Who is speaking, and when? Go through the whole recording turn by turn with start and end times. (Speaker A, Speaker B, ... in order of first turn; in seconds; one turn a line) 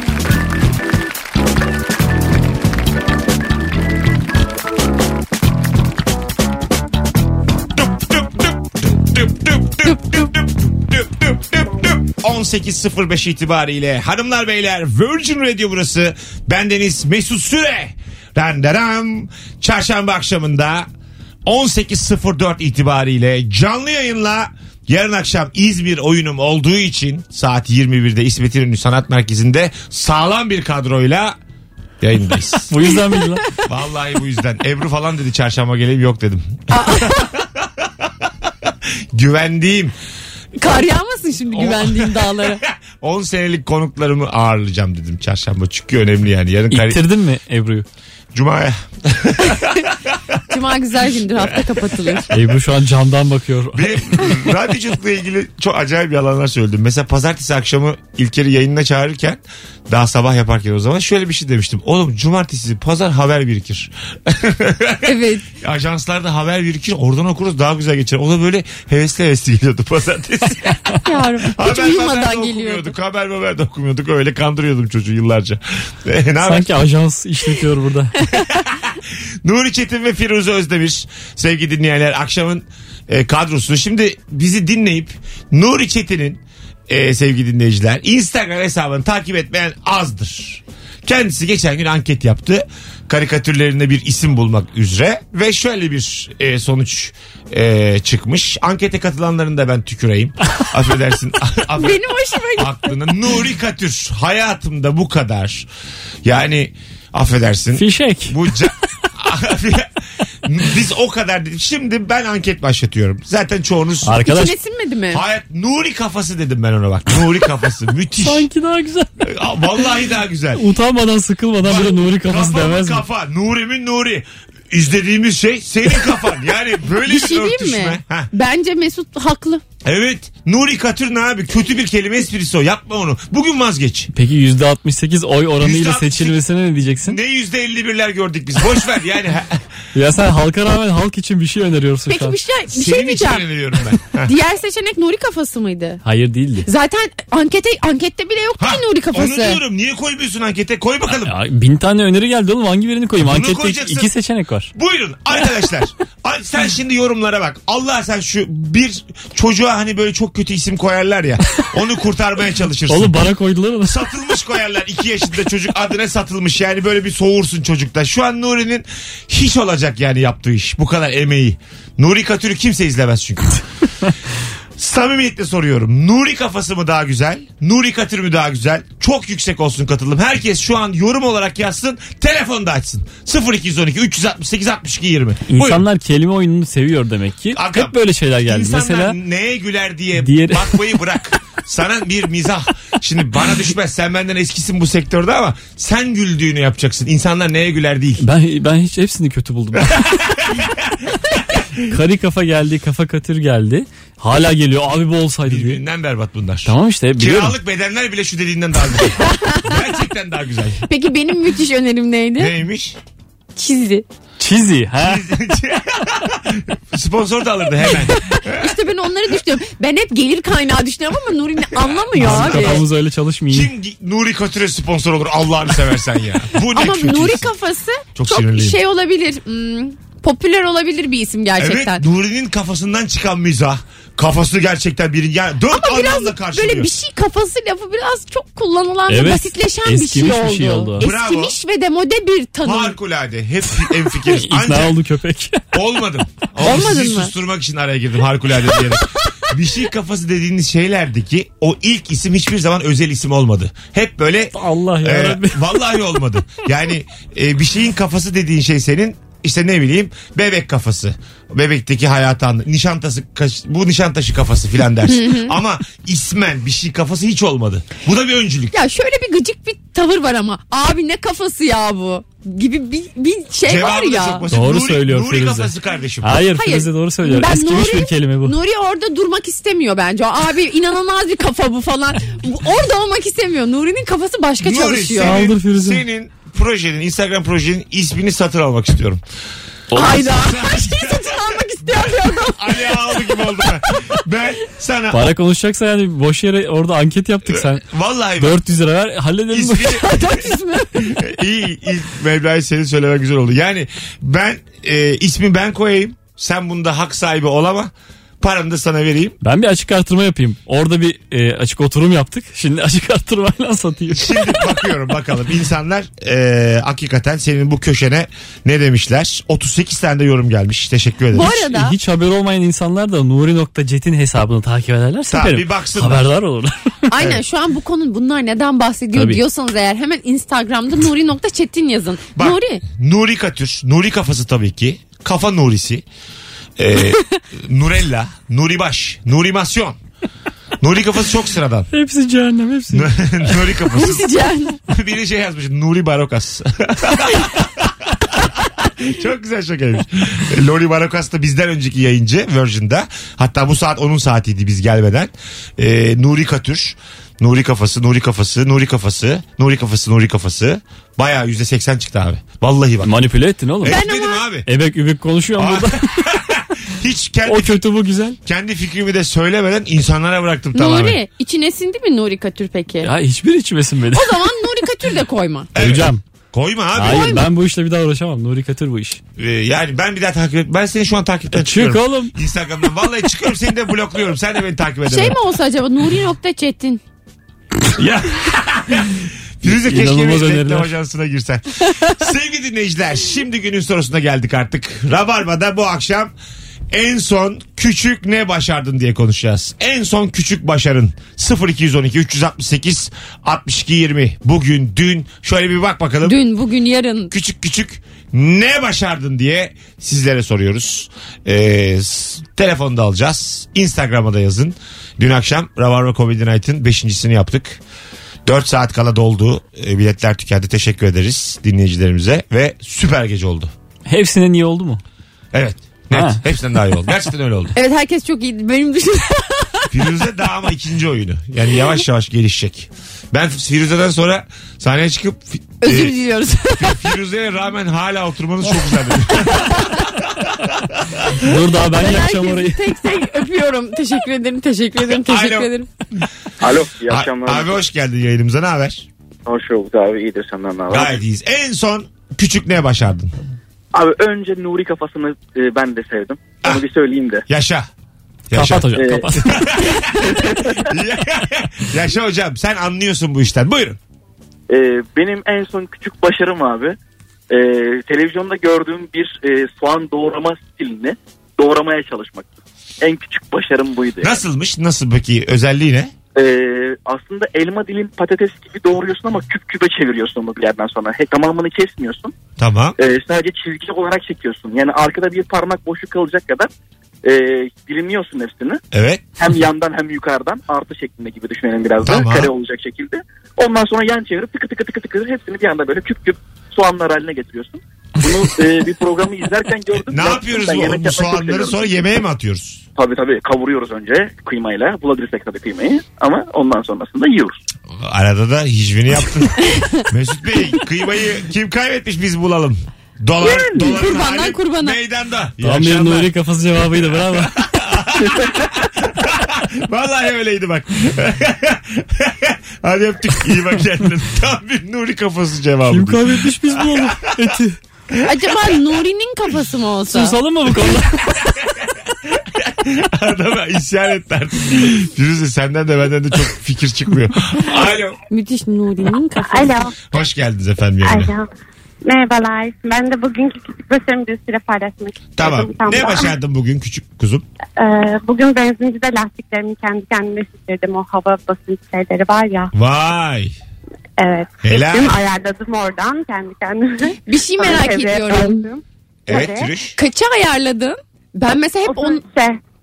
Speaker A: 7.8-20.9
Speaker A: 21.4-31.4
Speaker A: 32.0-32.7
Speaker B: 32.7-33.4
Speaker C: 33.0-33.2
Speaker A: 33.7-37.9
Speaker C: 36.7-37.3
Speaker A: 38.7-39.9
Speaker C: 40.6-42.6
Speaker A: 41.5-47.0
Speaker B: 46.7-47.9
Speaker A: 48.3-50.4
Speaker C: 50.5-52.3
Speaker A: 51.5-52.3
Speaker B: 52.3-54.2
Speaker A: 53.7-70.8
Speaker C: 65.1-65.5
Speaker C: 71.0-72.9
Speaker A: 71.5-76.7
Speaker B: 76.4-78.1
Speaker A: 78.5-102.0
Speaker C: 101.8-102.9
Speaker A: 102.6-105.7
Speaker A: 106.2-109.9
Speaker B: 107.8-108.4
Speaker A: 110.4-114.2
Speaker B: 114.0-114.5
Speaker C: 114.2-115.2
Speaker A: 115.1-118.5
Speaker B: 118.2-119.1
Speaker A: 119.2-120.6
Speaker B: 120.5-123.0
Speaker A: 121.6-128.3
Speaker C: 127.0-129.6
Speaker A: 129.8-134.1
Speaker B: 134.1-137.2
Speaker A: 135.6-136.4
Speaker A: 137.1-139.7
Speaker B: 139.9-142.4
Speaker C: 142.1-143.4
Speaker A: 142.7-144.3
Speaker C: 144.2-146.0
Speaker B: 146.0-146.7
Speaker C: 146.7-149.6
Speaker A: 148.6-151.3
Speaker B: 151.2-154.7
Speaker A: 153.2-154.1
Speaker A: 154.7-163.2
Speaker B: 162.9-164.0
Speaker A: 163.8-173.6
Speaker A: 174.8-185.8
Speaker B: 185.5-189.2
Speaker A: 187.6-198.2
Speaker B: 190.2-190.8
Speaker B: 198.2-200.1
Speaker A: 199.8-201.6
Speaker B: 201.9-205.8
Speaker A: 205.5-210.8
Speaker B: 206.7-207.6
Speaker C: 209.2-209.7
Speaker C: 210.9-212.5
Speaker A: 212.4-213.0
Speaker C: 213.6-214.1
Speaker B: 214.4-215.2
Speaker A: 215.0-218.7
Speaker C: 218.3-222.8
Speaker A: 222.2-222.8
Speaker B: 222.2-223.7
Speaker A: 223.5-227.5
Speaker C: 226.7-232.0
Speaker A: 228.2-228.8
Speaker A: 231.6-236.9
Speaker C: 235.7-243.0
Speaker B: 239.1-241.1
Speaker A: 241.0-241.6
Speaker A: 242.6-245.0
Speaker B: 244.2-245.6
Speaker A: 245.7-268.7
Speaker C: 246.6-247.3
Speaker B: 254.5-255.9
Speaker C: 265.1-265.6
Speaker C: 268.7-274.5
Speaker A: 273.7-276.4
Speaker B: 274.5-275.7
Speaker B: 276.2-278.5
Speaker C: 276.5-285.4
Speaker A: 284.6-289.2
Speaker B: 285.2-286.0
Speaker B: 289.9-290.2
Speaker C: 289.9-293.6
Speaker A: 290.0-295.3
Speaker B: 295.1-297.8
Speaker A: 297.5-298.6
Speaker B: 298.4-300.0
Speaker A: 299.5-300.2
Speaker C: 299.9-301.2
Speaker A: 301.0-309.4
Speaker B: 309.4-314.7
Speaker A: 314.1-321.6
Speaker C: 321.3-321.9
Speaker B: 321.5-326.8
Speaker A: 325.3-326.2
Speaker C: 327.1-332.8
Speaker B: 329.1-329.4
Speaker A: 332.4-336.1
Speaker A: 336.8-340.0
Speaker A: 340.8-341.9
Speaker B: 341.9-343.6
Speaker A: 342.9-344.3
Speaker C: 343.9-344.8
Speaker A: 344.9-363.1
Speaker B: 363.0-364.0
Speaker A: 363.8-364.7
Speaker C: 363.9-364.4
Speaker B: 364.7-366.0
Speaker A: 365.6-367.8
Speaker B: 367.5-368.4
Speaker A: 368.4-371.2
Speaker C: 370.7-373.1
Speaker B: 373.0-374.3
Speaker C: 374.1-375.7
Speaker A: 375.8-377.4
Speaker B: 375.8-376.2
Speaker B: 377.0-379.2
Speaker C: 377.1-377.4
Speaker A: 379.4-385.4
Speaker B: 381.6-382.3
Speaker C: 385.1-387.0
Speaker A: 388.0-396.3
Speaker B: 389.6-390.9
Speaker A: 396.9-406.4
Speaker C: 406.2-407.3
Speaker A: 407.3-417.8
Speaker A: 418.4-423.7
Speaker B: 424.1-425.0
Speaker A: 425.5-427.7
Speaker B: 426.1-426.4
Speaker C: 427.8-429.9
Speaker A: 429.9-436.1
Speaker C: 435.8-437.1
Speaker A: 436.8-441.5
Speaker C: 439.6-439.9
Speaker B: 441.4-442.8
Speaker C: 441.9-445.9
Speaker A: 445.1-445.7
Speaker D: 446.8-447.7
Speaker A: 447.1-449.1
Speaker D: 449.5-451.2
Speaker A: 450.9-453.4
Speaker D: 453.9-457.4
Speaker A: 457.5-457.9
Speaker A: 458.5-464.0
Speaker B: 458.5-460.1
Speaker D: 459.0-459.3
Speaker D: 460.4-460.7
Speaker D: 464.7-467.0
Speaker D: 467.5-474.4
Speaker A: 474.2-476.1
Speaker D: 476.4-482.3
Speaker A: 482.6-483.0
Speaker D: 483.0-486.7
Speaker D: 487.2-488.8
Speaker A: 488.9-489.2
Speaker D: 489.4-501.9
Speaker A: 492.0-492.5
Speaker A: 500.1-502.8
Speaker D: 503.0-507.6
Speaker A: 507.9-516.3
Speaker C: 513.4-515.0
Speaker B: 515.6-517.5
Speaker A: 517.0-527.5
Speaker B: 525.9-527.8
Speaker A: 528.1-528.8
Speaker C: 528.2-530.4
Speaker B: 530.1-531.7
Speaker A: 532.3-538.2
Speaker C: 538.3-539.8
Speaker E: 539.5-540.0
Speaker A: 540.1-541.3
Speaker E: 541.0-541.5
Speaker E: 542.0-546.3
Speaker A: 545.4-547.4
Speaker E: 547.8-552.7
Speaker A: 552.7-553.5
Speaker E: 554.2-559.7
Speaker A: 554.6-555.2
Speaker C: 557.1-558.6
Speaker A: 559.3-560.0
Speaker C: 560.0-562.2
Speaker E: 561.9-562.6